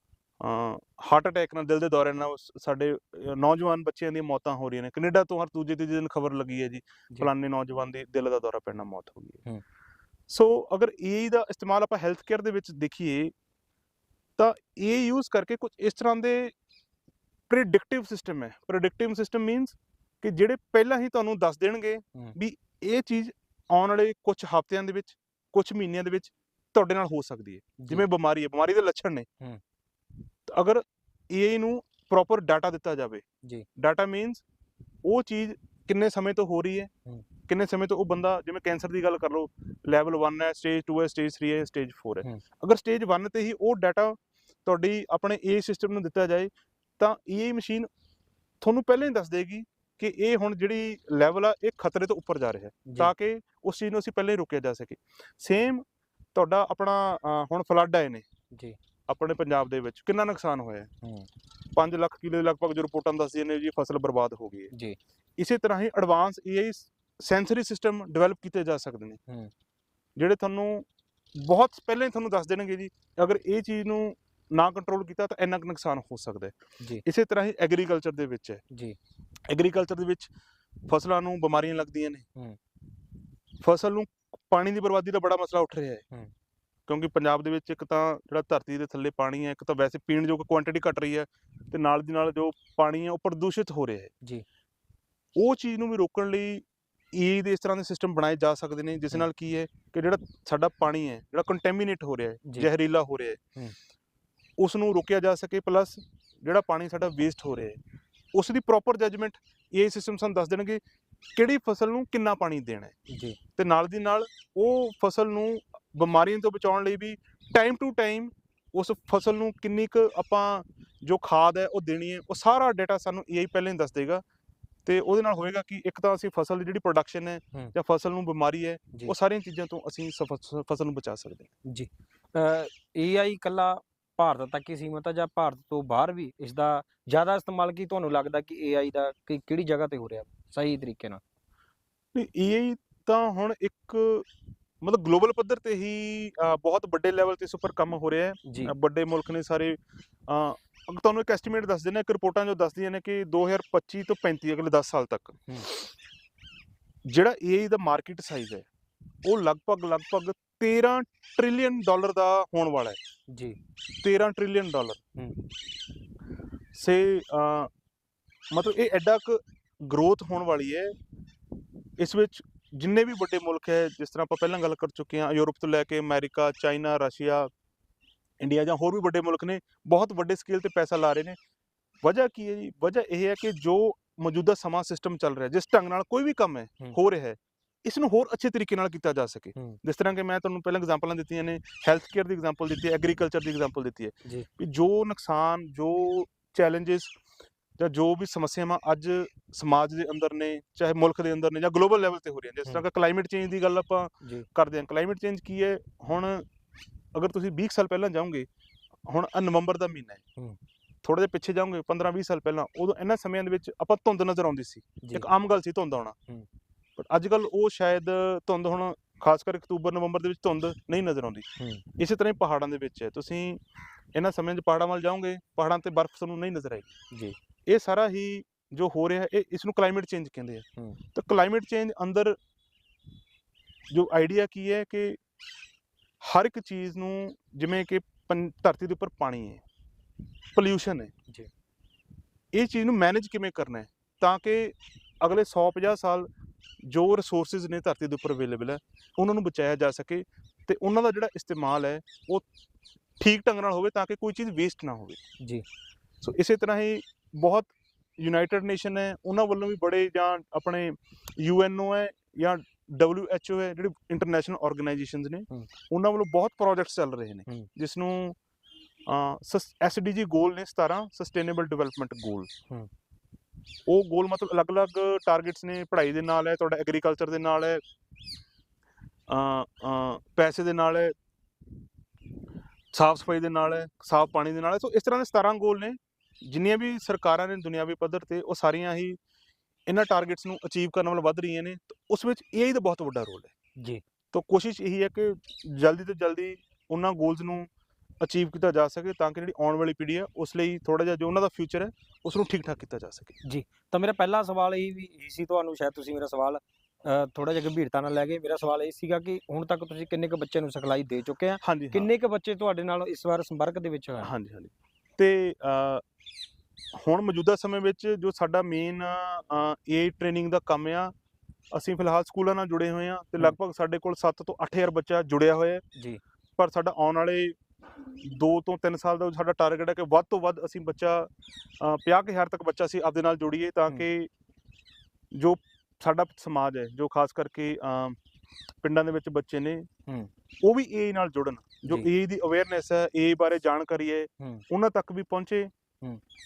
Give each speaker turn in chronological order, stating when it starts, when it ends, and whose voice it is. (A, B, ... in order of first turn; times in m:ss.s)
0:00.4-0:09.4 A
0:10.3-0:13.3 A
0:14.4-0:16.5 A
0:17.5-0:29.3 A
0:27.8-0:28.1 B
0:30.5-0:33.2 A
0:33.8-0:34.4 A
0:35.0-0:36.9 A
0:37.5-0:47.9 A
0:48.6-0:58.2 A
0:52.9-0:53.1 B
0:59.1-1:00.9 A
1:01.8-1:04.7 A
1:05.4-1:09.2 A
1:10.2-1:18.6 A
1:18.7-1:19.0 B
1:19.5-1:20.3 A
1:20.9-1:22.2 A
1:23.6-1:26.0 A
1:26.9-1:34.1 A
1:35.4-1:43.4 A
1:44.6-1:47.8 A
1:48.3-1:50.8 A
1:51.4-1:53.0 A
1:53.1-1:53.4 B
1:53.6-2:04.2 A
2:04.9-2:11.5 A
2:11.6-2:21.2 B
2:22.1-2:24.3 A
2:24.8-2:35.8 A
2:28.5-2:28.7 B
2:37.1-2:38.7 A
2:39.2-2:43.0 A
2:43.3-2:43.6 B
2:44.0-2:45.0 A
2:46.8-2:47.7 A
2:48.5-2:50.9 A
2:52.0-2:57.5 A
2:58.4-3:01.4 A
3:02.0-3:17.2 A
3:17.8-3:26.5 A
3:24.2-3:24.5 B
3:27.1-3:28.5 A
3:29.1-3:30.2 A
3:31.0-3:36.2 A
3:35.0-3:35.3 B
3:37.0-3:41.5 A
3:41.6-3:41.8 B
3:42.0-3:43.6 A
3:44.2-3:46.9 A
3:47.7-3:52.4 A
3:53.9-3:55.2 A
3:56.2-3:59.6 A
4:00.6-4:01.1 A
4:02.5-4:06.3 A
4:06.8-4:12.5 A
4:13.2-4:15.2 A
4:16.2-4:28.4 A
4:29.1-4:32.5 A
4:33.9-4:37.8 A
4:39.3-4:41.2 A
4:42.9-4:49.2 A
4:49.9-4:53.5 A
4:54.3-4:57.7 A
4:58.2-5:03.4 A
5:03.4-5:14.3 B
5:11.6-5:12.1 A
5:14.2-5:16.0 A
5:16.9-5:21.1 A
5:21.7-5:25.8 A
5:26.0-5:26.2 B
5:26.6-5:34.3 A
5:35.3-5:38.2 A
5:38.8-5:39.9 A
5:40.6-5:45.7 A